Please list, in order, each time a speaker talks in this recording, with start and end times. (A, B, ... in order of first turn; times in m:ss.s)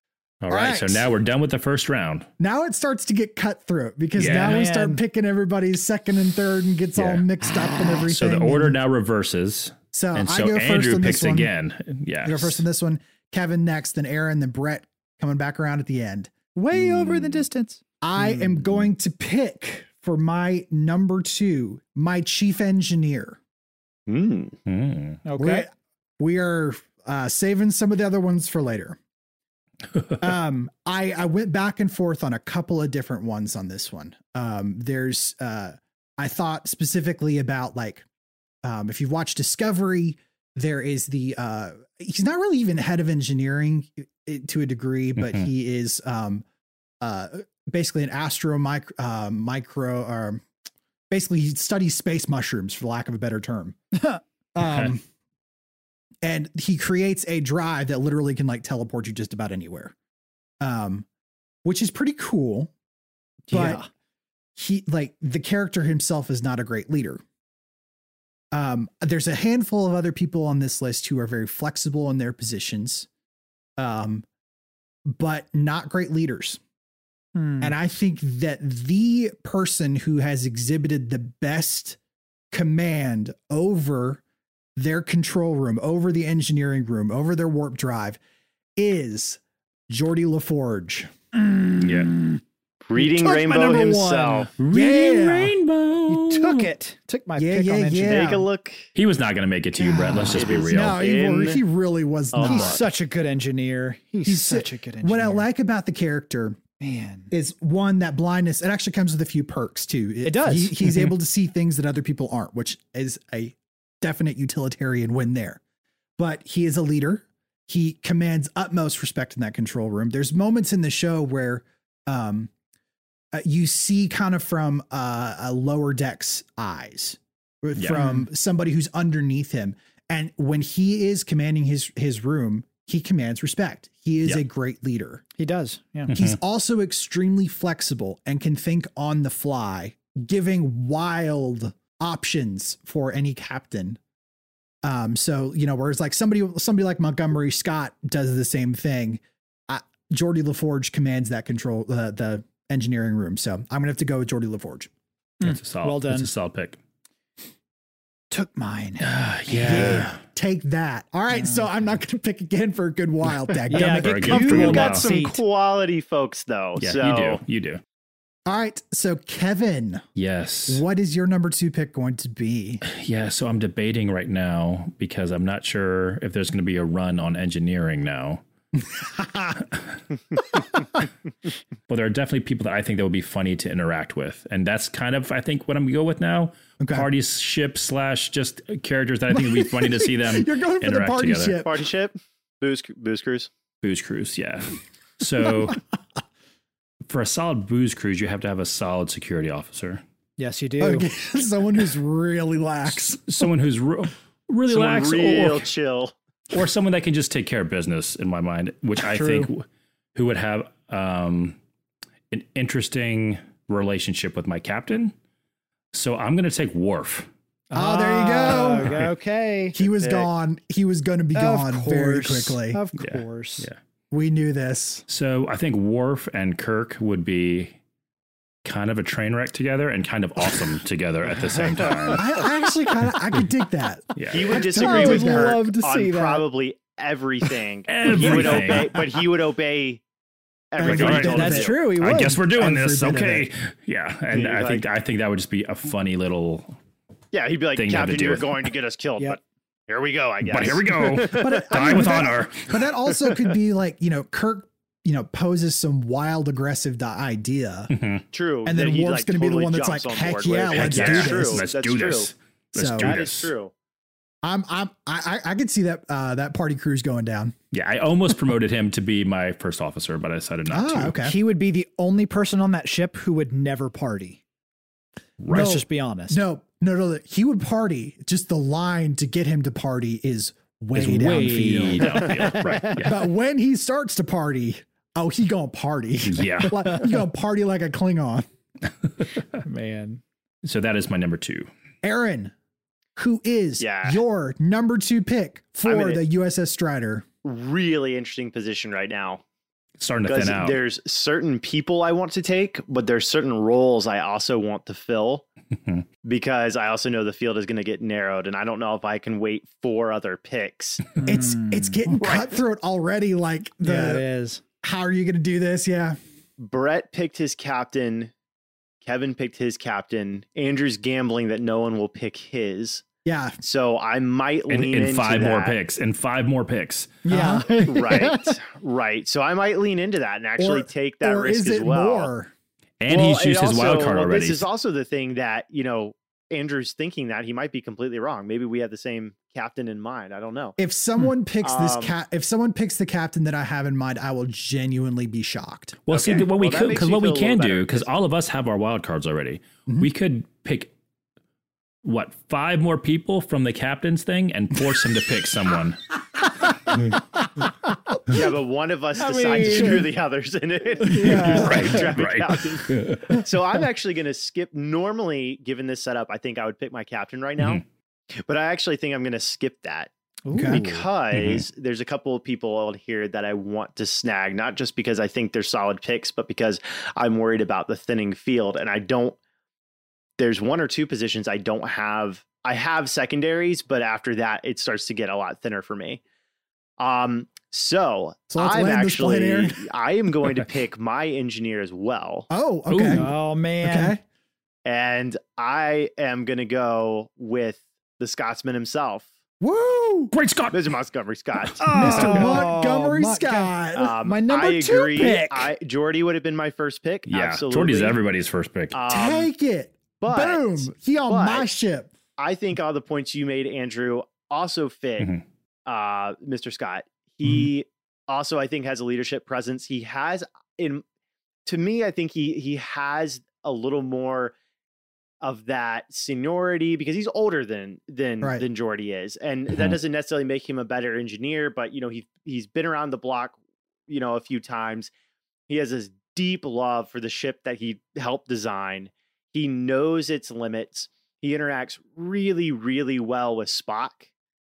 0:00.4-0:02.3 A
0:00.5-0:01.1 B
0:02.4-0:08.8 B
0:04.2-0:04.6 A
0:04.2-0:05.0 C
0:07.0-0:07.3 A
0:08.0-0:12.6 A
0:09.9-0:11.5 B
0:12.2-0:17.4 B
0:16.6-0:18.4 C
0:18.0-0:23.4 B
0:24.1-0:24.6 D
0:24.7-0:25.2 A
0:25.2-0:25.7 C
0:25.4-0:29.0 B
0:30.2-0:38.0 B
0:38.6-0:46.4 B
0:45.2-0:45.5 A
0:47.0-0:50.4 B
0:51.1-0:53.8 B
0:54.6-0:55.0 B
0:54.6-0:54.9 A
0:56.2-0:59.9 B
1:00.6-1:01.1 B
1:01.6-1:02.7 B
1:03.5-1:03.9 C
1:03.5-1:03.8 B
1:04.6-1:07.2 B
1:08.5-1:13.1 B
1:13.8-1:14.2 B
1:15.1-1:16.6 B
1:17.4-1:17.7 C
1:17.6-1:22.0 B
1:22.5-1:24.2 B
1:24.8-1:28.2 B
1:28.8-1:31.1 B
1:31.3-1:32.4 C
1:31.8-1:32.1 A
1:32.8-1:34.5 D
1:33.0-1:34.5 C
1:34.6-1:36.7 A
1:34.7-1:35.6 B
1:36.1-1:38.4 C
1:37.4-1:38.5 B
1:38.0-1:38.9 D
1:39.0-1:41.0 A
1:39.8-1:42.8 B
1:40.3-1:41.6 D
1:42.3-1:42.9 D
1:42.4-1:45.5 C
1:44.2-1:46.6 B
1:46.8-1:47.3 C
1:47.3-1:55.6 B
1:50.2-1:51.1 C
1:56.2-2:02.5 B
2:03.3-2:15.2 B
2:07.8-2:08.0 A
2:07.9-2:08.2 C
2:15.4-2:16.1 C
2:16.1-2:16.4 A
2:16.1-2:24.0 B
2:24.8-2:34.9 B
2:35.4-2:36.3 C
2:35.4-2:36.8 A
2:38.3-2:40.1 C
2:39.0-2:40.1 A
2:39.6-2:44.8 B
2:41.4-2:41.6 C
2:43.7-2:45.4 C
2:43.8-2:45.1 A
2:44.3-2:47.4 D
2:46.8-2:47.8 A
2:48.5-2:50.0 B
2:50.2-2:50.8 A
2:50.7-2:52.8 B
2:52.8-2:58.4 A
2:58.8-2:59.6 B
3:01.9-3:11.6 A
3:06.8-3:07.1 B
3:09.3-3:11.8 B
3:11.6-3:13.5 D
3:13.8-3:15.8 A
3:17.1-3:20.0 A
3:20.4-3:21.1 C
3:20.8-3:23.2 B
3:22.9-3:25.7 A
3:24.7-3:26.1 D
3:26.5-3:29.6 A
3:29.2-3:29.5 B
3:30.2-3:31.6 A
3:32.3-3:35.1 A
3:35.9-3:37.3 A
3:37.7-3:39.8 C
3:37.8-3:39.0 B
3:39.7-3:42.8 B
3:40.0-3:40.3 D
3:41.3-3:43.7 C
3:43.0-3:43.8 A
3:44.1-3:45.0 B
3:45.1-3:47.8 A
3:48.6-3:52.3 A
3:52.1-3:55.6 B
3:54.2-3:54.6 A
3:54.3-4:00.0 D
3:54.8-3:56.5 C
3:57.9-3:59.1 A
4:00.7-4:01.8 D
4:00.8-4:03.5 B
4:00.8-4:06.8 A
4:00.9-4:02.4 C
4:04.3-4:04.8 D
4:07.3-4:12.4 D
4:07.7-4:08.7 A
4:10.4-4:12.8 A
4:11.3-4:17.9 B
4:17.9-4:18.2 A
4:18.3-4:22.3 D
4:18.6-4:21.6 B
4:20.7-4:23.5 A
4:22.7-4:23.2 B
4:23.0-4:23.7 D
4:24.4-4:27.6 B
4:27.7-4:31.2 A
4:30.7-4:31.4 B
4:31.2-4:34.4 C
4:35.4-4:35.8 A
4:35.5-4:36.4 C
4:35.5-4:48.5 B
4:41.0-4:43.0 C
4:41.1-4:43.2 A
4:46.2-4:46.9 A
4:49.6-4:50.2 C
4:50.6-4:51.7 A
4:52.0-4:52.5 B
4:53.2-4:57.3 B
4:53.8-4:54.2 D
4:55.8-4:56.2 D
4:57.4-4:59.4 D
5:00.0-5:00.8 A
5:00.3-5:05.4 D
5:06.2-5:11.2 D
5:11.2-5:12.0 C
5:11.2-5:14.2 B
5:13.8-5:14.6 C
5:14.8-5:16.2 B
5:16.6-5:18.3 D
5:19.0-5:23.0 D
5:23.2-5:23.6 B
5:23.6-5:25.8 D
5:24.7-5:27.2 A
5:27.2-5:28.6 C
5:27.3-5:27.8 B
5:27.8-5:32.3 D
5:30.6-5:32.5 B
5:33.0-5:34.6 A
5:33.1-5:40.8 D
5:40.8-5:46.0 B
5:41.6-5:42.1 D
5:46.1-5:50.9 A
5:46.1-5:48.1 D
5:52.0-5:56.0 A
5:58.3-6:07.8 D
5:59.2-6:00.1 C
6:01.1-6:01.9 C
6:01.2-6:02.0 B
6:01.2-6:03.3 A
6:08.4-6:10.1 D
6:10.4-6:11.0 C
6:10.5-6:10.8 B
6:10.6-6:19.4 D
6:11.3-6:11.6 A
6:20.4-6:26.2 D
6:27.0-6:32.5 D
6:28.5-6:29.9 B
6:32.5-6:33.3 B
6:32.9-6:33.2 A
6:33.1-6:34.2 C
6:33.8-6:34.2 B
6:34.8-6:39.3 D
6:39.6-6:40.3 B
6:40.3-6:41.0 A
6:40.7-6:42.4 D
6:41.8-6:43.7 C
6:41.8-6:42.4 A
6:41.9-6:45.3 B
6:43.9-6:48.2 D
6:45.0-6:45.7 C
6:47.3-6:49.0 A
6:48.9-6:49.5 D
6:49.1-6:52.1 B
6:50.2-6:51.7 D
6:52.4-6:55.3 D
6:55.9-7:01.0 D
7:01.7-7:04.5 D
7:05.4-7:13.6 D
7:14.1-7:15.1 D
7:15.7-7:24.3 D